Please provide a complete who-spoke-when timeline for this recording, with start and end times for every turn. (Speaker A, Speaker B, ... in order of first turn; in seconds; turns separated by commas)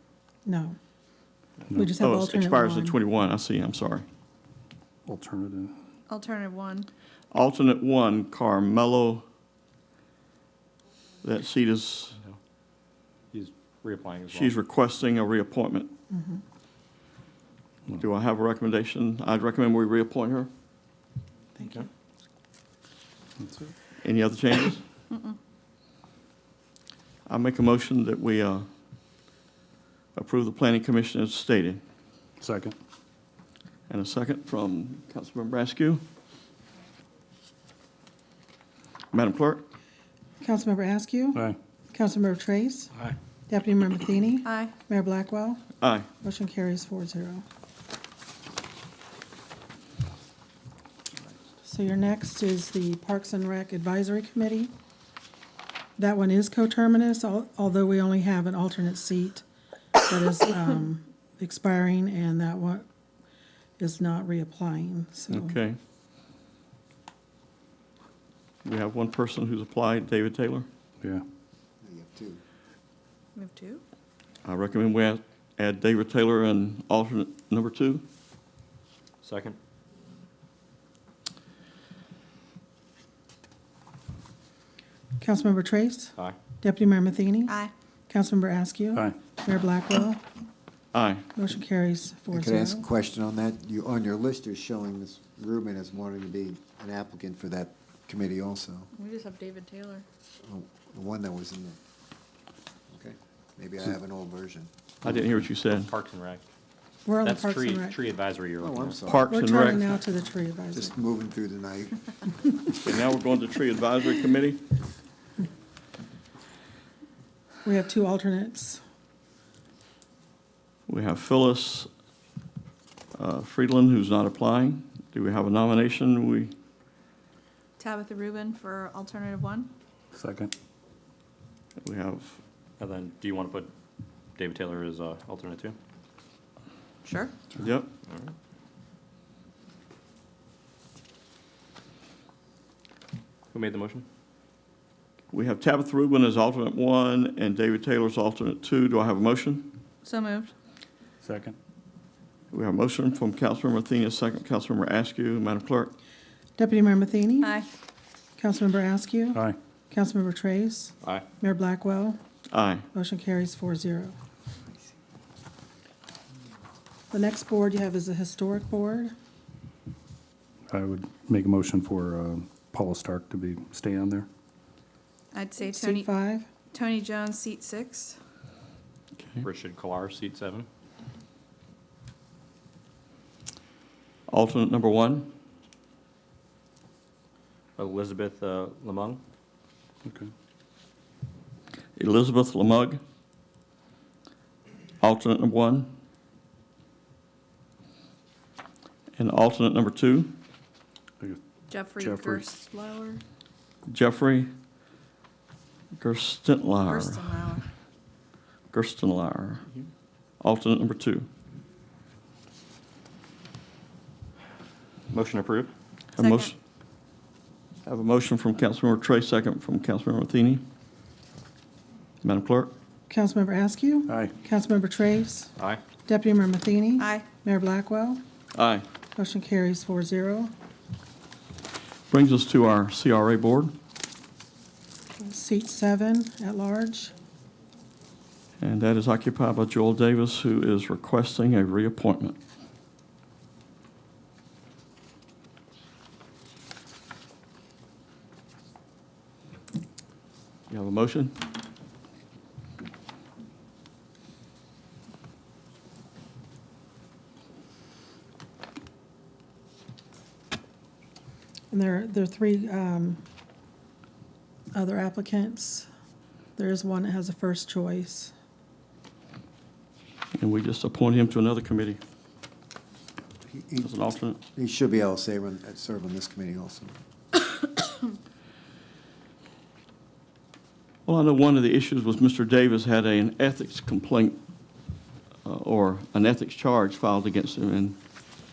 Speaker A: 0.5-0.8, Speaker A: 1.7-3.0, Speaker B: 2.0-4.1, Speaker C: 5.1-5.8, Speaker D: 6.1-6.9, Speaker B: 7.3-9.2, Speaker B: 11.2-12.2, Speaker E: 13.3-14.6, Speaker B: 14.3-15.9, Speaker A: 16.1-16.4, Speaker B: 18.0-20.5, Speaker A: 21.6-21.9, Speaker C: 23.4-23.7, Speaker B: 24.0-24.8, Speaker B: 27.3-28.7, Speaker B: 30.1-31.8, Speaker C: 32.4-32.8, Speaker B: 33.9-36.0, Speaker B: 39.1-39.7, Speaker A: 40.4-42.9, Speaker A: 43.5-45.6, Speaker D: 44.5-44.7, Speaker B: 45.8-46.1, Speaker A: 46.2-47.4, Speaker A: 51.6-54.7, Speaker A: 56.0-59.4, Speaker A: 60.0-62.9, Speaker A: 63.8-65.6, Speaker B: 65.3-65.8, Speaker B: 68.6-70.7, Speaker F: 71.8-72.4, Speaker D: 73.4-73.8, Speaker B: 74.5-78.0, Speaker E: 79.2-79.6, Speaker A: 85.2-87.6, Speaker A: 88.1-90.2, Speaker B: 90.9-91.2, Speaker A: 91.3-92.9, Speaker F: 92.3-98.9, Speaker D: 99.0-100.0, Speaker F: 100.4-101.8, Speaker F: 102.9-104.7, Speaker B: 105.0-105.9, Speaker E: 105.6-106.5, Speaker A: 107.0-108.0, Speaker E: 107.2-109.0, Speaker F: 108.6-109.3, Speaker B: 109.1-110.0, Speaker A: 109.3-110.9, Speaker F: 110.7-112.1, Speaker B: 112.8-114.6, Speaker A: 117.6-118.8, Speaker B: 120.9-121.9, Speaker B: 123.2-126.5, Speaker D: 127.8-129.7, Speaker C: 130.1-130.5, Speaker B: 131.8-132.4, Speaker E: 132.8-133.7, Speaker E: 134.4-135.8, Speaker D: 137.1-137.3, Speaker B: 137.6-137.9, Speaker E: 143.5-144.1, Speaker B: 145.3-149.8, Speaker D: 150.0-150.5, Speaker C: 151.2-151.6, Speaker B: 152.5-155.9, Speaker A: 156.6-157.6, Speaker D: 157.4-157.7, Speaker A: 158.4-162.2, Speaker C: 159.3-159.6, Speaker B: 162.5-162.8, Speaker A: 162.9-164.2, Speaker A: 167.1-169.1, Speaker C: 170.7-174.3, Speaker D: 175.3-176.1, Speaker A: 175.6-176.5, Speaker D: 176.7-178.2, Speaker B: 179.2-179.4, Speaker E: 179.4-180.7, Speaker B: 184.3-185.3, Speaker E: 187.8-189.2, Speaker C: 190.1-190.3, Speaker B: 192.0-193.0, Speaker B: 195.0-195.9, Speaker B: 199.2-200.4, Speaker D: 201.7-203.2, Speaker C: 202.0-202.5, Speaker B: 203.9-204.5, Speaker B: 205.9-207.4, Speaker D: 206.9-207.6, Speaker B: 208.7-209.6, Speaker B: 210.4-211.3, Speaker E: 215.1-215.7, Speaker B: 216.2-216.5, Speaker D: 216.2-216.5, Speaker B: 217.9-220.6, Speaker B: 222.2-222.7, Speaker A: 223.1-225.5, Speaker C: 224.1-224.3, Speaker A: 226.1-228.2, Speaker D: 227.0-227.3, Speaker B: 228.5-228.8, Speaker A: 229.2-230.5, Speaker B: 232.1-233.8, Speaker A: 235.2-237.1, Speaker B: 238.6-242.4, Speaker B: 250.7-251.4, Speaker A: 261.7-263.2, Speaker A: 264.7-265.9, Speaker A: 266.6-268.3, Speaker B: 270.4-272.0, Speaker F: 273.5-276.9, Speaker B: 273.8-274.4, Speaker B: 281.1-284.4, Speaker B: 285.4-288.0